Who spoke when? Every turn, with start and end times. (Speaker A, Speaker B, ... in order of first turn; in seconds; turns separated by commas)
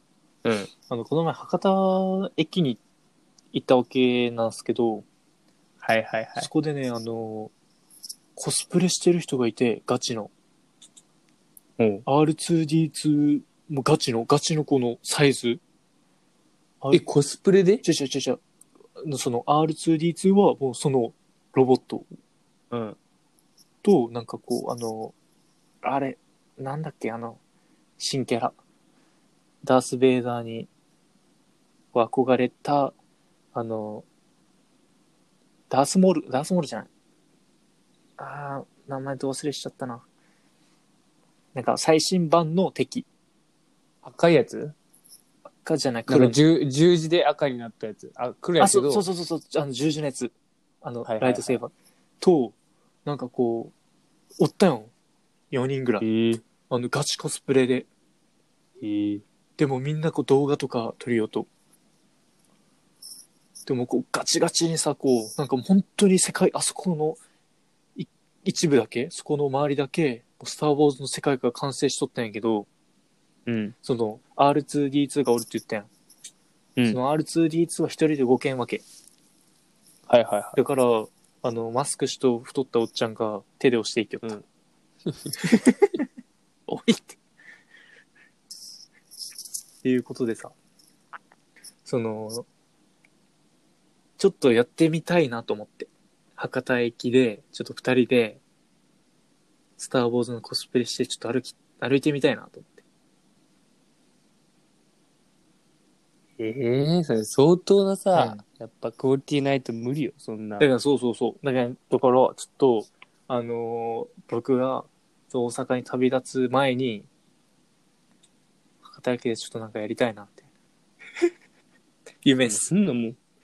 Speaker A: 0.4-0.7, Speaker B: 0.9-2.8, Speaker B: 3.5-5.0, Speaker A: 5.8-6.5, Speaker B: 6.4-7.5, Speaker B: 8.3-10.3, Speaker A: 11.8-12.0, Speaker B: 12.1-15.6, Speaker A: 16.9-17.8, Speaker B: 17.8-18.4, Speaker B: 19.0-22.1, Speaker A: 22.7-23.0, Speaker B: 23.8-25.1, Speaker B: 25.8-27.4, Speaker B: 28.0-28.6, Speaker B: 29.6-30.7, Speaker B: 31.9-32.9, Speaker B: 33.5-34.0, Speaker B: 35.7-36.9, Speaker B: 38.2-40.0, Speaker B: 41.5-43.1, Speaker A: 44.0-44.8, Speaker B: 45.6-46.4, Speaker A: 46.1-49.1, Speaker B: 48.6-53.7, Speaker A: 51.0-51.6, Speaker B: 54.4-54.9, Speaker B: 55.5-56.0, Speaker A: 56.0-56.4, Speaker B: 56.7-57.9, Speaker A: 58.8-59.2, Speaker B: 59.6-61.5, Speaker B: 63.7-67.2, Speaker B: 68.0-72.7, Speaker A: 73.5-73.7, Speaker B: 73.8-75.9, Speaker B: 76.9-78.8, Speaker A: 80.1-80.6, Speaker B: 80.5-84.4, Speaker A: 85.1-85.4, Speaker B: 85.4-86.0, Speaker B: 86.7-87.2, Speaker B: 89.8-90.5, Speaker B: 91.8-92.5, Speaker B: 94.2-98.4, Speaker B: 99.8-102.8, Speaker A: 106.4-110.7, Speaker B: 108.1-108.4, Speaker B: 110.6-117.1, Speaker B: 118.8-120.5, Speaker B: 122.2-122.7, Speaker A: 122.4-123.2